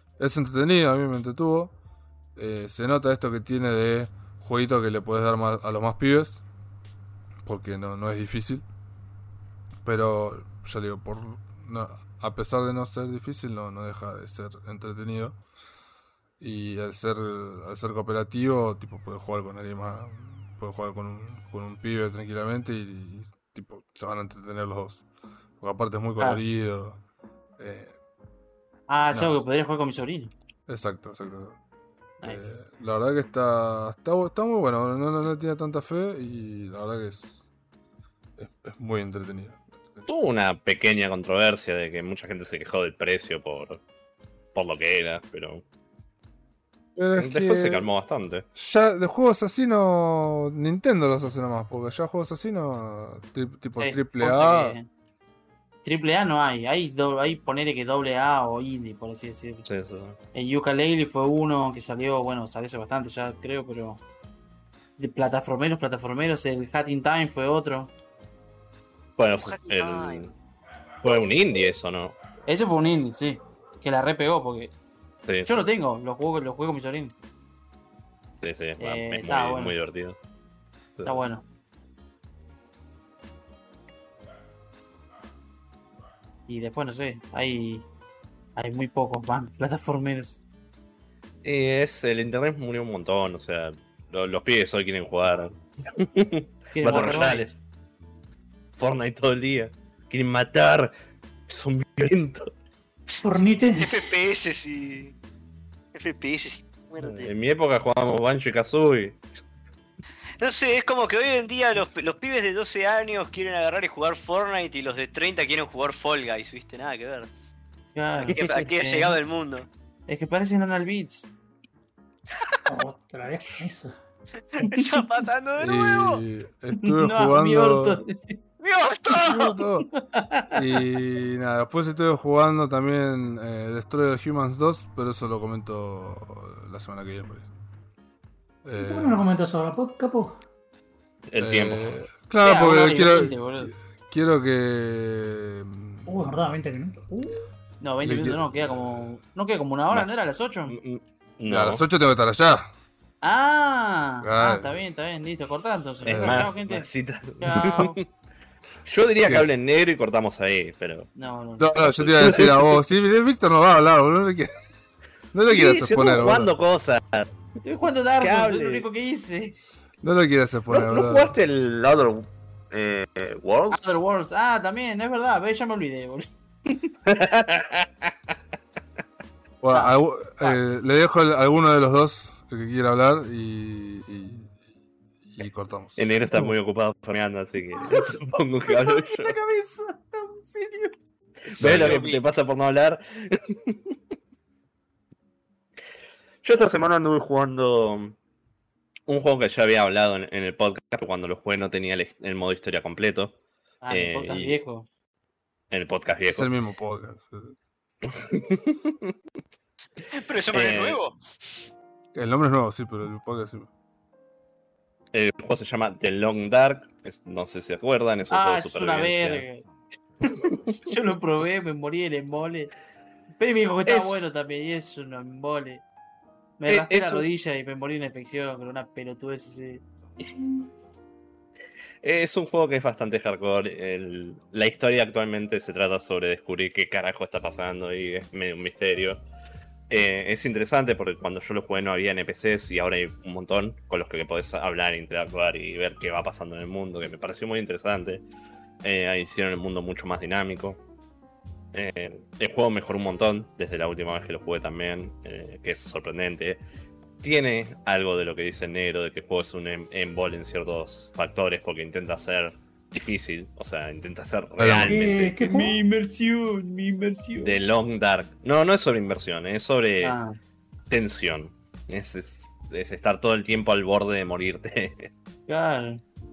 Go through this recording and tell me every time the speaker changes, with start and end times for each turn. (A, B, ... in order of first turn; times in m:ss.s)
0:00.2-0:01.7 A
0:02.4-0:06.4 A
0:07.4-0:08.6 A
0:09.8-0:15.4 A
0:16.4-0:25.0 A
0:25.6-0:27.0 A
0:27.6-0:28.0 A
0:28.9-0:30.3 B
0:29.1-0:29.4 A
0:30.7-0:31.6 A
0:32.2-0:32.6 B
0:32.2-0:37.4 A
0:38.4-0:40.1 A
0:40.1-0:43.8 C
0:44.6-0:45.6 C
0:47.0-0:47.9 A
0:47.2-0:48.4 C
0:48.6-0:54.8 A
0:53.8-0:54.9 B
0:55.8-0:59.7 B
0:59.7-1:00.2 C
1:00.3-1:04.0 B
1:05.0-1:07.9 B
1:09.2-1:10.3 C
1:09.5-1:10.2 D
1:11.0-1:12.2 C
1:12.5-1:14.7 B
1:15.2-1:15.6 C
1:15.4-1:17.2 B
1:18.4-1:20.2 C
1:18.8-1:19.7 B
1:21.0-1:21.4 B
1:26.5-1:27.9 B
1:28.6-1:30.4 B
1:31.4-1:37.6 C
1:36.7-1:37.5 B
1:38.8-1:40.9 C
1:41.5-1:42.5 C
1:43.2-1:44.0 E
1:43.8-1:45.2 D
1:46.0-1:47.3 D
1:47.0-1:49.4 C
1:50.4-1:57.3 D
1:58.0-1:59.2 B
1:58.2-1:59.7 D
2:00.1-2:01.4 B
2:02.7-2:04.0 E
2:04.5-2:06.2 D
2:04.6-2:05.1 B
2:05.6-2:08.0 A
2:06.8-2:08.4 B
2:08.6-2:09.6 D
2:09.2-2:09.9 A
2:09.9-2:10.7 B
2:10.5-2:17.5 A
2:18.6-2:19.2 A
2:18.8-2:20.4 E
2:21.3-2:22.1 C
2:21.4-2:26.2 A
2:22.4-2:23.7 B
2:26.1-2:27.4 E
2:27.8-2:30.8 B
2:28.0-2:29.1 A
2:30.7-2:31.8 C
2:31.5-2:32.7 A
2:33.2-2:36.9 B
2:34.2-2:34.9 A
2:36.0-2:38.1 C
2:36.1-2:36.5 A
2:37.4-2:38.0 B
2:38.9-2:41.1 C
2:41.2-2:41.7 B
2:41.6-2:44.5 A
2:41.8-2:42.8 C
2:45.3-2:46.5 A
2:45.5-2:47.3 C
2:47.6-2:49.6 B
2:48.2-2:48.9 C
2:50.0-2:51.3 A
2:50.7-2:54.0 C
2:53.7-2:56.9 B
2:57.1-2:58.1 C
2:59.6-3:04.6 A
2:59.7-3:00.6 B
3:05.2-3:06.1 A
3:06.0-3:09.4 C
3:07.8-3:11.0 B
3:11.5-3:12.2 D
3:11.6-3:14.0 C
3:16.4-3:18.2 C
3:19.1-3:23.4 C
3:23.8-3:24.9 B
3:23.9-3:24.6 C
3:25.7-3:26.5 C
3:26.3-3:27.6 A
3:28.0-3:29.1 C
3:30.1-3:31.2 D
3:30.5-3:31.0 C
3:32.1-3:33.7 A
3:35.1-3:39.5 C
3:38.3-3:39.6 B
3:40.2-3:42.7 B
3:40.4-3:40.8 C
3:43.4-3:45.8 B
3:43.9-3:44.2 C
3:46.6-3:49.8 B
3:46.7-3:47.3 C
3:52.0-3:59.2 C
3:59.9-4:08.2 C
4:08.8-4:10.8 C
4:11.7-4:16.6 C
4:17.2-4:25.6 C
4:24.6-4:25.1 A
4:24.7-4:25.8 E
4:25.4-4:27.6 B
4:27.4-4:30.2 C
4:30.0-4:30.4 B
4:30.9-4:35.1 C
4:35.5-4:36.0 B